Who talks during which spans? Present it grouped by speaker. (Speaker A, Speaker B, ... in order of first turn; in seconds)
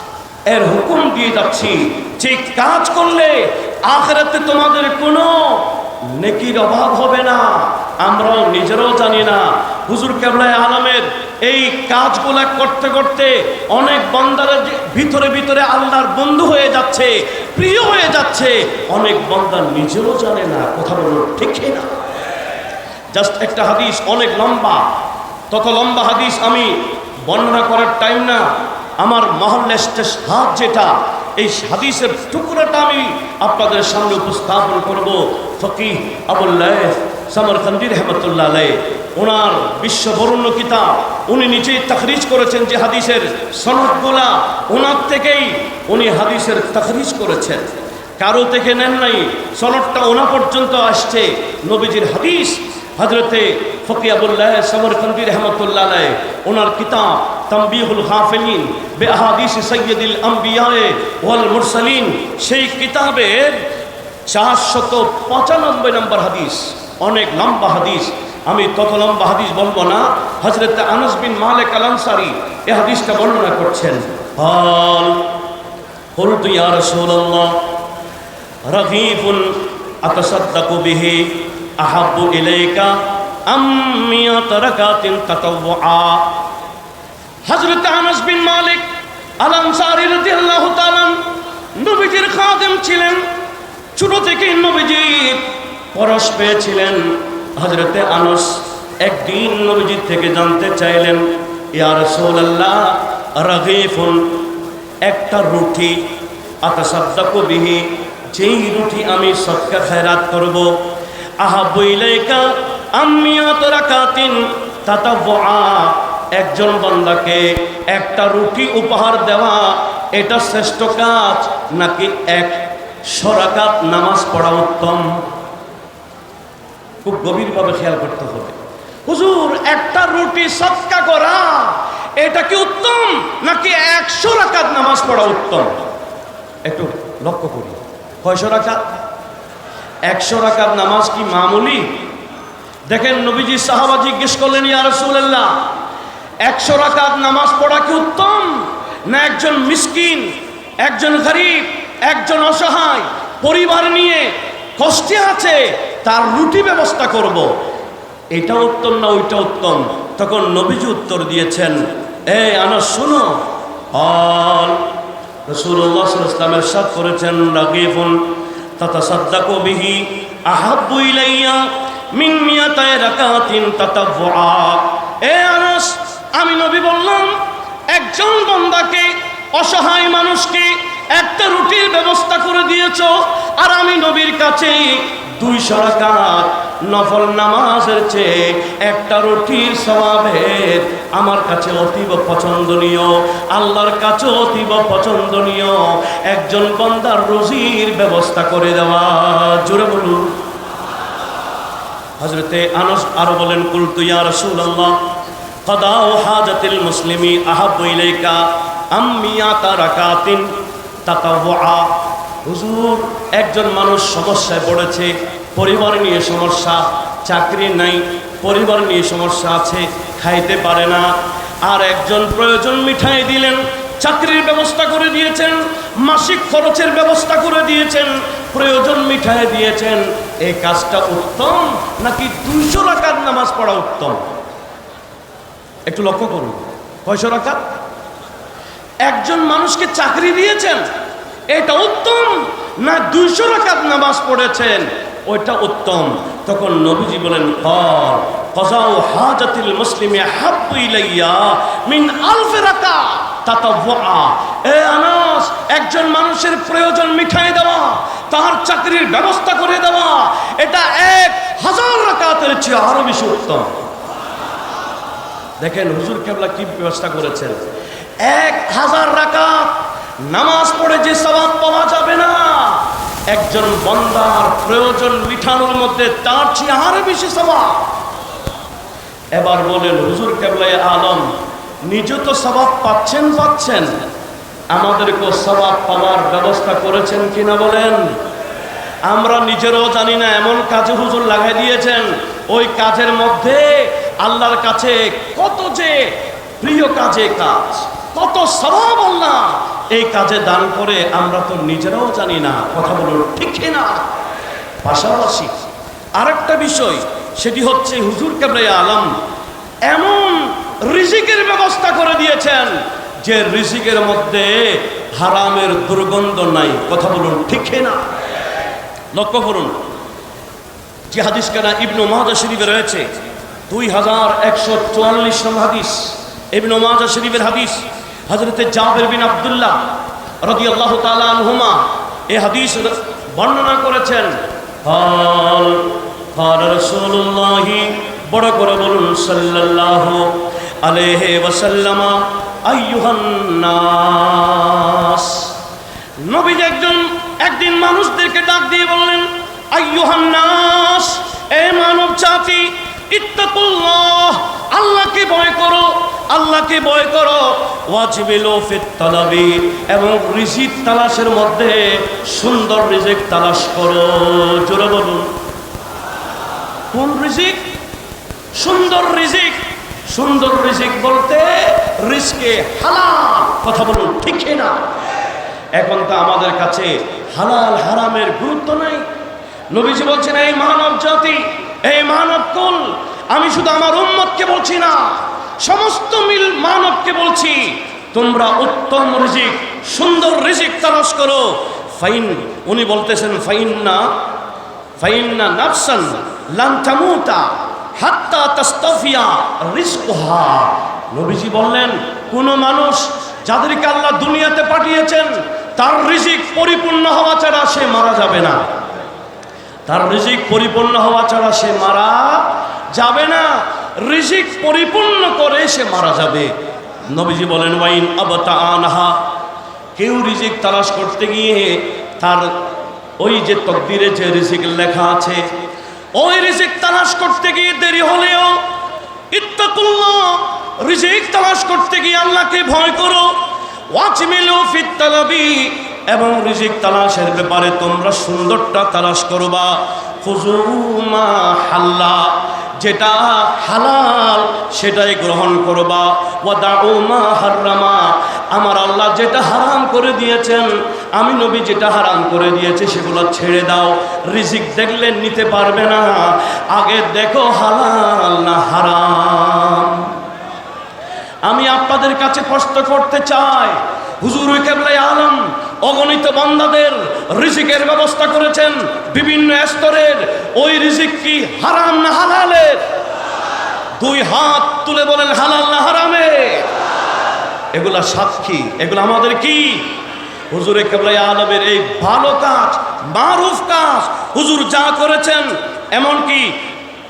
Speaker A: 0.5-21.9, 23.1-24.9, 25.5-28.5, 29.0-63.6, 64.3-75.3, 76.2-77.7, 78.7-86.4, 87.5-88.8, 89.4-91.2, 91.7-93.2, 94.0-104.5, 105.0-106.1, 106.6-110.7, 111.4-125.2, 127.0-135.8, 136.7-138.9, 140.1-142.0, 142.9-145.6, 146.4-157.5, 158.3-164.8, 165.5-168.2, 168.8-200.4, 202.2-205.0, 205.7-210.5, 211.0-221.1, 221.6-234.2, 235.9-237.6, 239.1-240.8, 241.5-263.8, 265.6-267.6, 268.2-277.9, 279.3-281.3, 281.8-283.9, 284.7-288.1, 289.1-304.1, 304.8-305.5, 306.2-309.1, 309.9-318.0, 319.1-319.8, 321.1-323.1, 323.7-329.9, 330.4-345.5, 346.2-365.3, 366.9-367.7, 368.6-374.8, 375.8-379.0, 379.7-394.1, 395.0-408.7, 409.9-416.5, 417.1-419.2, 419.9-422.7, 423.2-425.4, 426.1-428.6, 429.3-433.4, 433.9-460.2, 461.4-472.8, 474.0-476.7, 477.7-480.0, 480.5-486.6